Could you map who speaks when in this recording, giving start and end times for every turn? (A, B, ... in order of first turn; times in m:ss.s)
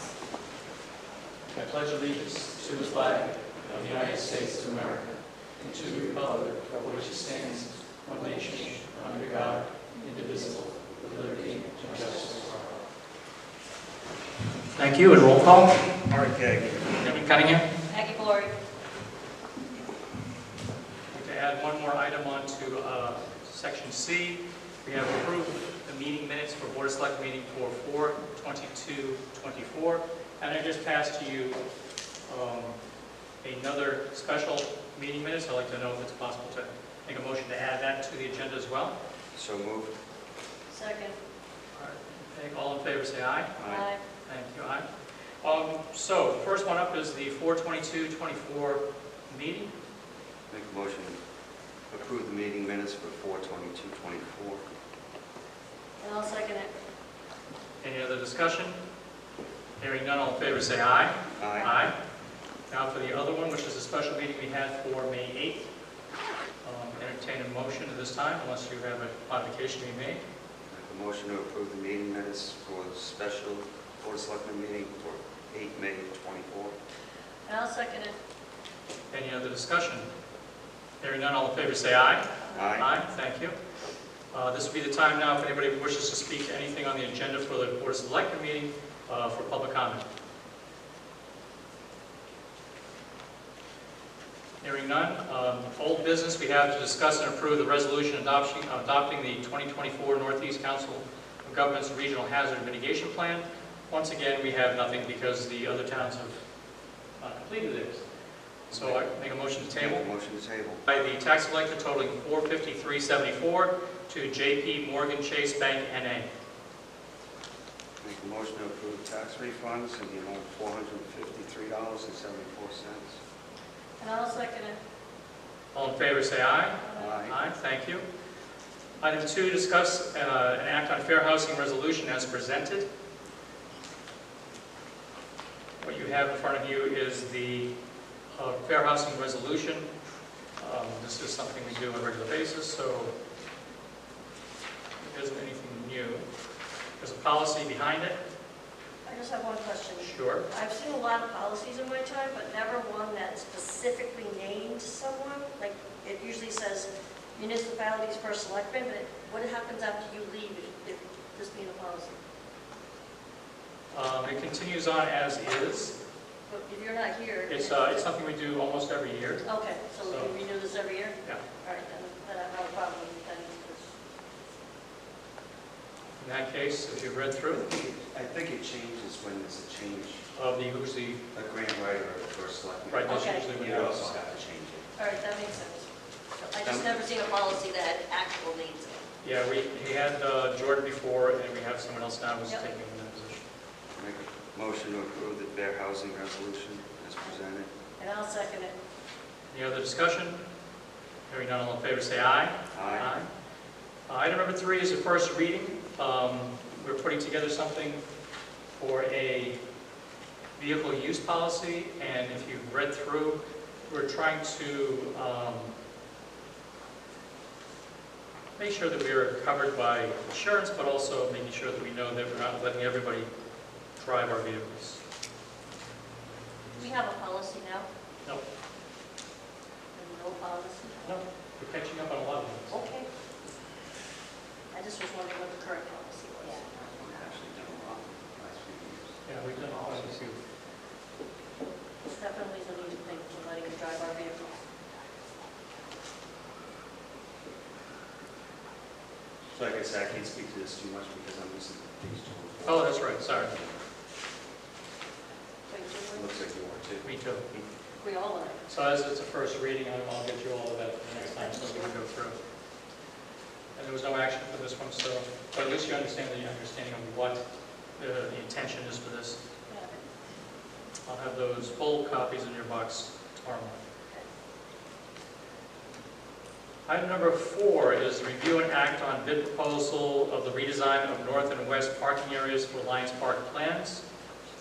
0:01.5-0:12.7 A
0:14.8-0:15.8 A
0:16.1-0:17.0 B
0:16.9-0:17.6 A
0:17.9-0:18.5 C
0:21.1-0:31.6 A
0:32.3-0:32.7 A
0:33.4-0:39.0 A
0:39.3-0:39.9 B
0:40.7-0:41.2 C
0:41.7-0:43.5 A
0:43.6-0:43.8 B
0:43.6-0:44.0 C
0:44.2-0:44.8 A
0:45.4-0:49.7 A
0:50.5-0:51.2 B
0:51.9-0:54.6 B
0:56.0-0:56.7 C
0:57.8-0:58.8 A
0:59.8-1:01.9 A
1:01.4-1:01.7 B
1:02.7-1:05.7 A
1:06.6-1:10.2 A
1:10.7-1:16.7 B
1:17.5-1:18.2 C
1:19.1-1:20.0 A
1:21.0-1:23.6 A
1:22.5-1:22.7 C
1:22.5-1:22.9 B
1:24.3-1:30.0 A
1:34.6-1:46.4 A
1:47.2-1:48.0 A
1:48.7-1:50.0 A
1:48.7-1:49.0 B
1:49.7-1:50.8 B
1:50.8-1:56.3 A
1:58.0-2:03.2 B
2:04.0-2:04.8 C
2:05.7-2:08.0 A
2:06.8-2:07.2 C
2:06.9-2:07.4 B
2:09.0-2:12.9 A
2:15.8-2:17.7 A
2:18.3-2:19.9 A
2:20.6-2:23.1 A
2:25.0-2:26.2 A
2:27.0-2:28.2 A
2:29.0-2:42.2 C
2:30.0-2:30.4 A
2:43.9-2:46.0 A
2:46.5-2:48.0 C
2:47.5-2:49.4 A
2:49.4-2:53.9 C
2:50.0-2:50.3 A
2:56.2-2:57.6 A
2:57.5-3:00.2 B
3:00.3-3:01.2 A
3:01.3-3:04.9 B
3:02.9-3:04.2 A
3:03.0-3:03.5 C
3:05.0-3:09.0 C
3:06.6-3:07.0 B
3:09.2-3:13.4 A
3:13.9-3:17.7 B
3:18.0-3:18.7 C
3:19.5-3:20.4 A
3:21.3-3:23.3 A
3:22.7-3:23.1 B
3:24.1-3:28.0 A
3:28.8-3:29.6 A
3:30.6-3:35.7 A
3:38.6-3:43.3 A
3:44.0-3:45.0 A
3:46.8-3:47.9 C
3:49.9-3:51.2 C
3:51.0-3:52.8 A
3:52.8-3:53.0 C
3:54.7-3:56.6 C
3:56.7-4:00.0 B
3:59.2-4:00.4 A
4:02.0-4:04.6 C
4:09.5-4:13.8 B
4:12.6-4:13.6 A
4:15.7-4:16.3 C
4:16.1-4:17.7 B
4:17.0-4:17.4 A
4:18.0-4:18.6 C
4:18.7-4:22.4 A
4:21.1-4:21.9 C
4:23.7-4:27.4 A
4:28.0-4:29.4 A
4:29.7-4:30.0 C
4:31.0-4:33.8 A
4:36.8-4:44.0 A